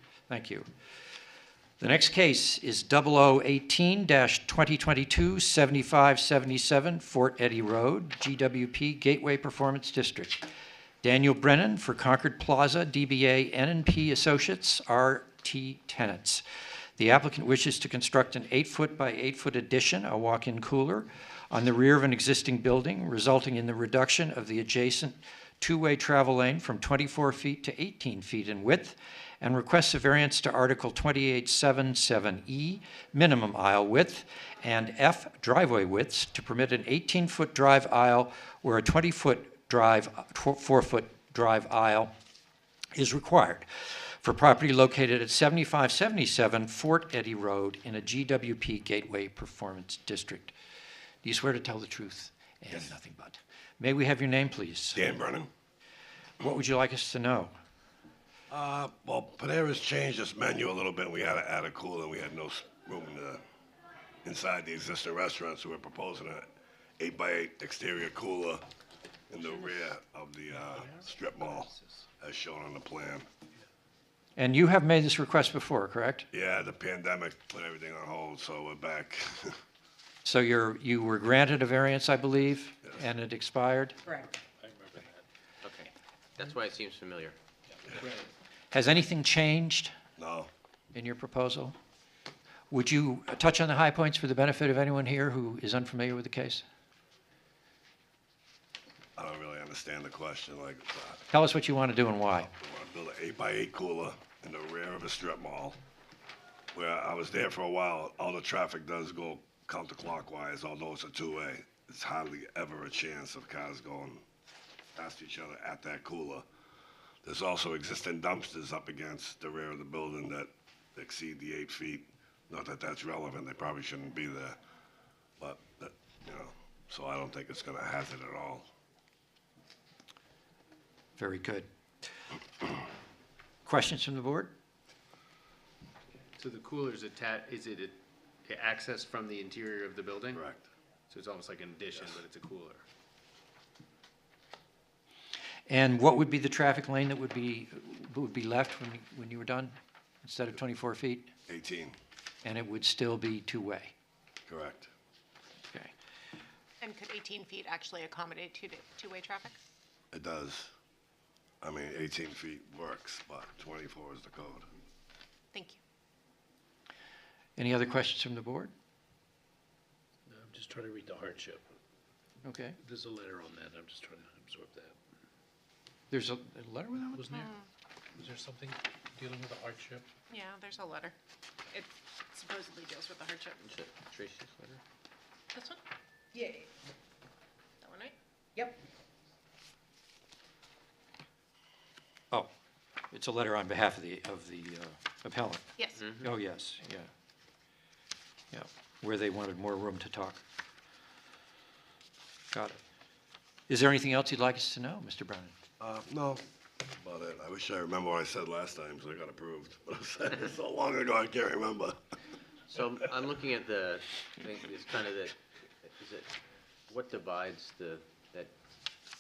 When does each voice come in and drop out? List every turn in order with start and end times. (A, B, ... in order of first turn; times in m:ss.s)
0:00.3-0:00.7 A
0:01.8-0:10.5 A
0:11.0-0:16.4 A
0:17.0-0:42.1 A
0:43.0-0:50.5 A
0:51.2-0:55.2 A
0:55.0-0:55.5 B
0:56.4-0:57.5 A
0:58.5-1:03.4 B
1:04.2-1:06.5 B
1:07.0-1:08.6 B
1:09.3-1:13.3 B
1:11.4-1:12.0 C
1:14.4-1:16.3 A
1:16.3-1:19.6 B
1:20.2-1:24.0 A
1:24.6-1:25.3 C
1:25.6-1:27.4 D
1:28.0-1:28.3 C
1:28.7-1:29.9 A
1:30.2-1:30.5 B
1:30.9-1:31.8 A
1:32.7-1:36.6 A
1:39.2-1:41.2 B
1:41.3-1:42.5 A
1:42.5-1:45.8 B
1:46.7-1:54.2 B
1:55.0-1:56.5 B
1:57.2-2:04.6 B
2:05.4-2:08.7 B
2:11.2-2:11.7 A
2:13.6-2:14.5 A
2:16.4-2:20.4 C
2:20.3-2:20.6 B
2:21.1-2:22.8 C
2:25.7-2:31.3 A
2:31.5-2:32.0 B
2:32.4-2:33.9 A
2:34.5-2:34.9 B
2:36.8-2:39.6 E
2:40.1-2:40.7 B
2:41.6-2:44.7 B
2:45.5-2:45.8 E
2:47.6-2:48.7 A
2:50.3-2:51.6 C
2:50.4-2:51.6 F
2:52.4-2:52.8 A
2:52.8-2:53.8 C
2:52.9-2:54.8 F
2:56.1-2:57.4 A
2:57.2-2:57.5 C
2:58.2-3:00.1 C
2:58.4-3:00.0 F
3:00.3-3:01.2 E
3:01.7-3:03.7 E
3:03.6-3:04.8 D
3:05.5-3:05.8 E
3:06.3-3:06.7 E
3:07.8-3:08.8 E
3:13.1-3:17.1 A
3:15.8-3:16.1 E
3:18.5-3:20.4 A
3:22.5-3:22.8 A
3:23.7-3:25.6 A
3:25.8-3:26.4 B
3:27.0-3:32.0 B
3:32.7-3:36.3 D
3:36.9-3:38.5 D